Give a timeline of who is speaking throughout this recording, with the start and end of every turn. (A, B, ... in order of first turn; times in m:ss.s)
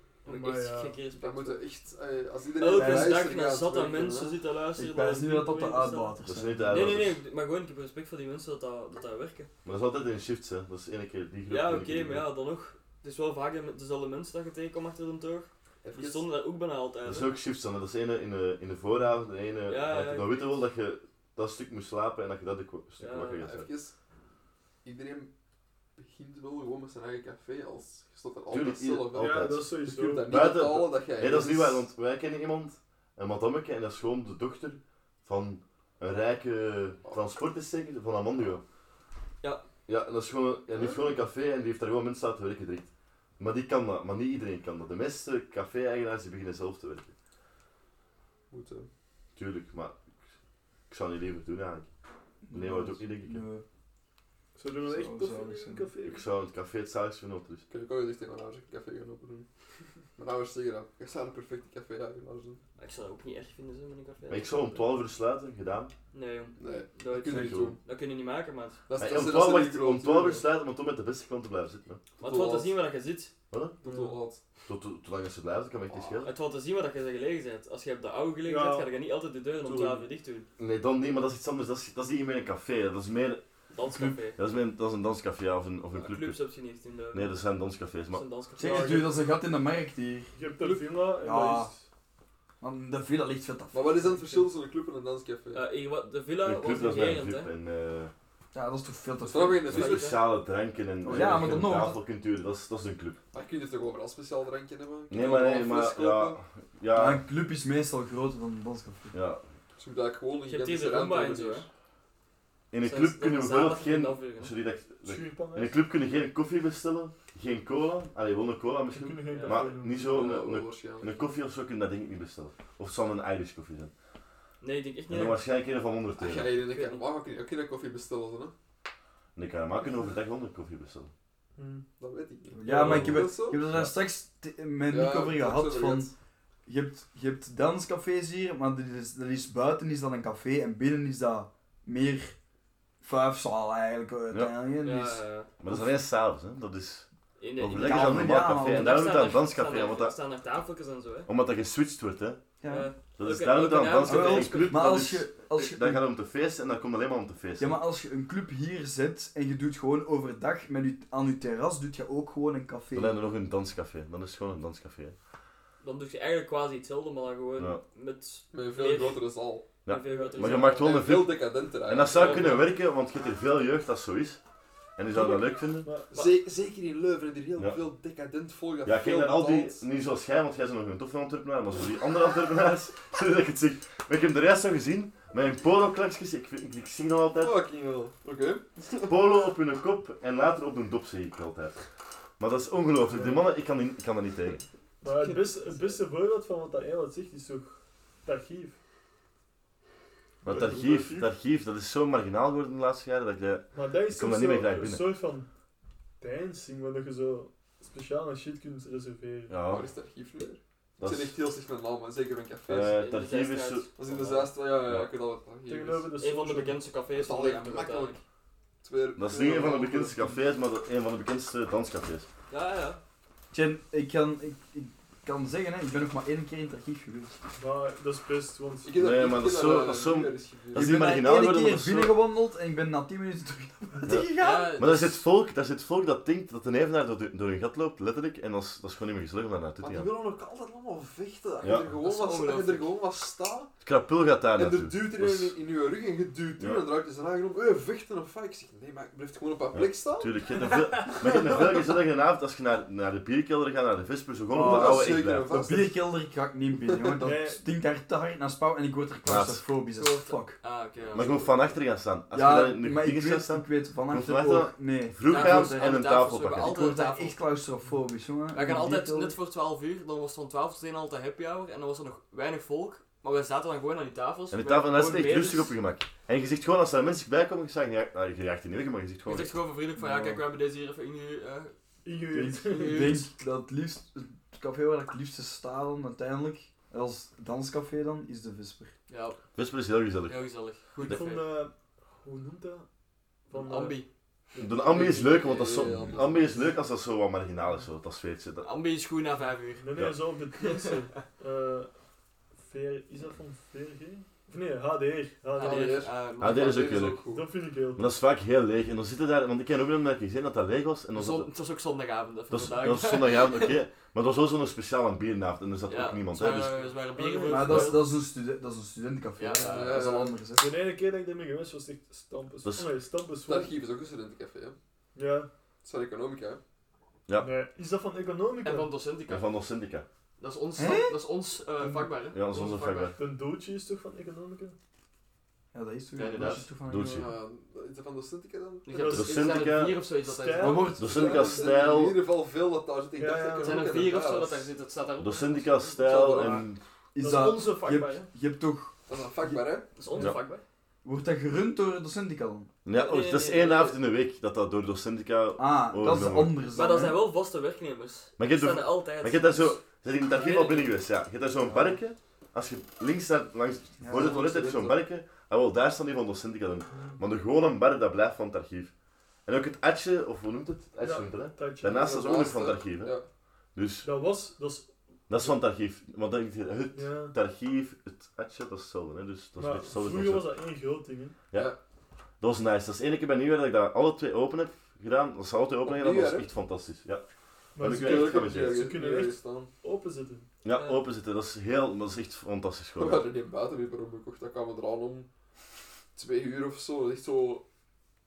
0:00.2-0:01.0 A
0:00.2-0:01.6 B
0:01.1-0:04.4 C
0:02.6-0:06.2 B
0:02.7-0:03.2 D
0:04.8-0:07.0 D
0:06.2-0:07.2 E
0:06.7-0:09.5 B
0:09.6-0:12.3 E
0:11.5-0:17.3 B
0:15.8-0:16.3 C
0:17.0-0:23.7 E
0:19.7-0:20.6 B
0:23.0-0:23.5 B
0:23.4-0:24.0 C
0:24.8-0:25.3 C
0:26.0-0:31.8 C
0:28.5-0:38.6 E
0:29.1-0:30.4 A
0:39.9-0:47.1 E
0:48.5-0:48.9 C
0:49.4-0:50.0 E
0:50.9-0:51.9 E
0:52.4-0:53.6 D
0:52.5-0:53.4 E
0:54.6-0:56.2 A
0:54.8-0:55.9 D
0:56.0-0:57.7 E
0:57.7-0:59.5 C
1:00.2-1:02.6 C
1:02.8-1:04.5 B
1:04.3-1:05.9 E
1:06.1-1:08.8 B
1:06.6-1:07.8 C
1:07.3-1:07.8 E
1:08.9-1:10.5 C
1:09.0-1:12.0 E
1:12.2-1:12.7 C
1:12.2-1:13.3 B
1:13.5-1:13.8 E
1:13.8-1:14.4 C
1:13.8-1:14.2 A
1:14.7-1:16.3 E
1:15.9-1:16.2 C
1:16.2-1:20.5 B
1:18.4-1:18.9 A
1:19.6-1:20.1 A
1:20.6-1:23.4 E
1:23.7-1:24.4 B
1:24.4-1:26.4 E
1:26.0-1:27.4 B
1:27.1-1:28.2 E
1:28.1-1:29.1 B
1:28.6-1:30.3 D
1:28.6-1:29.1 A
1:30.3-1:31.8 A
1:30.6-1:30.9 B
1:31.2-1:31.7 D
1:32.6-1:34.1 D
1:33.7-1:35.7 C
1:35.5-1:37.5 B
1:36.4-1:38.1 E
1:38.5-1:39.8 D
1:39.2-1:40.3 C
1:39.7-1:40.2 B
1:39.7-1:43.2 E
1:41.0-1:42.0 D
1:41.2-1:41.6 C
1:43.3-1:46.4 C
1:45.1-1:47.2 E
1:46.9-1:49.2 D
1:49.1-1:49.4 E
1:49.8-1:51.7 C
1:50.5-1:51.6 B
1:52.7-2:03.9 E
1:52.8-1:54.5 B
1:55.0-1:55.8 A
1:58.9-2:00.2 A
1:59.3-1:59.7 B
2:00.0-2:01.2 C
2:04.6-2:05.4 B
2:05.1-2:06.5 E
2:06.2-2:08.5 C
2:06.7-2:07.0 B
2:09.4-2:11.1 E
2:11.6-2:11.8 A
2:12.0-2:13.6 C
2:12.5-2:16.1 D
2:12.7-2:13.9 E
2:14.9-2:16.1 C
2:16.7-2:22.4 D
2:23.0-2:26.0 D
2:24.8-2:25.5 B
2:25.6-2:30.2 E
2:27.4-2:31.3 B
2:27.8-2:29.0 D
2:31.3-2:32.4 E
2:32.6-2:32.9 D
2:32.7-2:34.9 B
2:33.2-2:37.8 E
2:34.0-2:36.0 D
2:37.6-2:43.2 D
2:42.9-2:45.2 E
2:45.8-2:49.3 B
2:48.5-2:49.7 C
2:49.8-2:51.0 B
2:49.8-2:54.4 E
2:50.5-2:52.7 C
2:52.1-2:52.7 B
2:55.0-2:55.9 E
2:55.2-2:56.2 A
2:56.1-2:59.8 C
2:58.8-3:07.6 E
3:07.4-3:09.2 C
3:09.1-3:11.8 E
3:12.4-3:14.6 E
3:13.1-3:13.4 A
3:15.0-3:18.8 A
3:15.1-3:16.0 B
3:20.4-3:25.1 E
3:20.4-3:21.3 A
3:23.7-3:25.5 A
3:26.2-3:29.6 A
3:29.5-3:29.9 E
3:29.7-3:33.0 C
3:31.0-3:31.4 E
3:32.7-3:35.1 E
3:32.7-3:34.0 B
3:34.0-3:36.1 C
3:35.7-3:36.8 A
3:36.2-3:38.2 B
3:37.1-3:38.2 C
3:38.8-3:40.4 C
3:39.2-3:42.3 E
3:42.5-3:43.0 B
3:43.5-3:47.4 D
3:47.6-3:49.0 A
3:48.8-3:50.9 C
3:49.0-3:52.2 E
3:50.8-3:54.8 D
3:54.1-4:00.1 E
3:54.3-3:55.2 B
3:59.8-4:03.7 C
4:01.6-4:01.9 E
4:02.0-4:03.0 B
4:03.8-4:05.6 E
4:04.6-4:10.4 C
4:06.6-4:06.9 E
4:09.7-4:15.5 E
4:10.6-4:11.2 B
4:11.2-4:11.8 C
4:14.5-4:20.6 D
4:14.6-4:16.0 C
4:17.2-4:17.6 A
4:19.3-4:19.6 E
4:19.9-4:21.8 B
4:21.1-4:26.8 E
4:22.3-4:25.9 D
4:25.3-4:27.4 B
4:26.6-4:29.4 D
4:28.5-4:35.8 B
4:34.5-4:39.5 E
4:39.3-4:41.7 B
4:40.0-4:40.4 D
4:42.0-4:43.2 A
4:42.3-4:48.9 D
4:42.6-4:43.3 B
4:49.1-4:49.4 B
4:49.6-4:50.5 E
4:50.3-4:51.5 B
4:51.0-4:52.9 A
4:53.5-4:55.4 A
4:53.5-4:54.1 B
4:54.6-4:58.7 E
4:55.0-4:56.8 C
4:58.6-4:59.9 B
4:59.8-5:01.9 A
5:00.5-5:01.1 B
5:02.6-5:06.0 A
5:05.6-5:07.2 B
5:05.6-5:07.5 C
5:06.4-5:07.2 E
5:07.3-5:08.1 A
5:08.0-5:11.5 E
5:11.1-5:13.8 B
5:12.5-5:16.7 E
5:15.9-5:18.1 B
5:16.6-5:17.9 A
5:17.5-5:20.8 D
5:17.7-5:18.0 E
5:19.4-5:20.0 B
5:19.7-5:20.4 C
5:20.5-5:23.8 A
5:23.4-5:24.8 C
5:25.2-5:25.5 A
5:25.8-5:26.6 C
5:27.4-5:28.9 A
5:28.6-5:29.4 B
5:29.3-5:30.1 E
5:30.4-5:33.2 B
5:30.8-5:31.2 D
5:31.8-5:32.2 A
5:32.3-5:33.2 E
5:33.2-5:34.8 A
5:35.7-5:37.3 D
5:36.2-5:36.7 B
5:36.4-5:37.3 E
5:37.1-5:39.2 C
5:38.8-5:41.0 B
5:38.9-5:39.7 A
5:39.1-5:40.0 E
5:40.2-5:41.7 A
5:40.6-5:41.2 D
5:41.0-5:42.2 E
5:41.1-5:44.7 C
5:43.2-5:44.0 A
5:43.6-5:46.7 B
5:45.2-5:46.8 E
5:46.0-5:46.7 C
5:47.1-5:49.7 D
5:47.2-5:48.3 B
5:47.2-5:47.6 A
5:49.1-5:49.9 C
5:50.0-5:50.6 B
5:51.0-5:52.7 D
5:52.8-5:56.6 E
5:52.9-5:54.0 B
5:55.6-5:57.2 D
5:56.7-5:59.8 B
5:58.4-6:08.9 E
6:00.3-6:00.9 B
6:04.0-6:04.4 D
6:04.1-6:05.0 C
6:06.9-6:07.2 A
6:09.5-6:13.2 E
6:11.0-6:12.1 A
6:11.9-6:13.2 C
6:13.8-6:14.1 E
6:14.0-6:15.5 A
6:15.3-6:20.5 E
6:16.9-6:17.4 A
6:19.6-6:21.4 A
6:22.4-6:27.2 E
6:25.8-6:26.5 C
6:27.8-6:30.5 A
6:27.8-6:28.8 E
6:27.8-6:29.7 C
6:30.6-6:33.2 E
6:30.7-6:31.0 B
6:33.0-6:35.3 C
6:36.2-6:37.7 C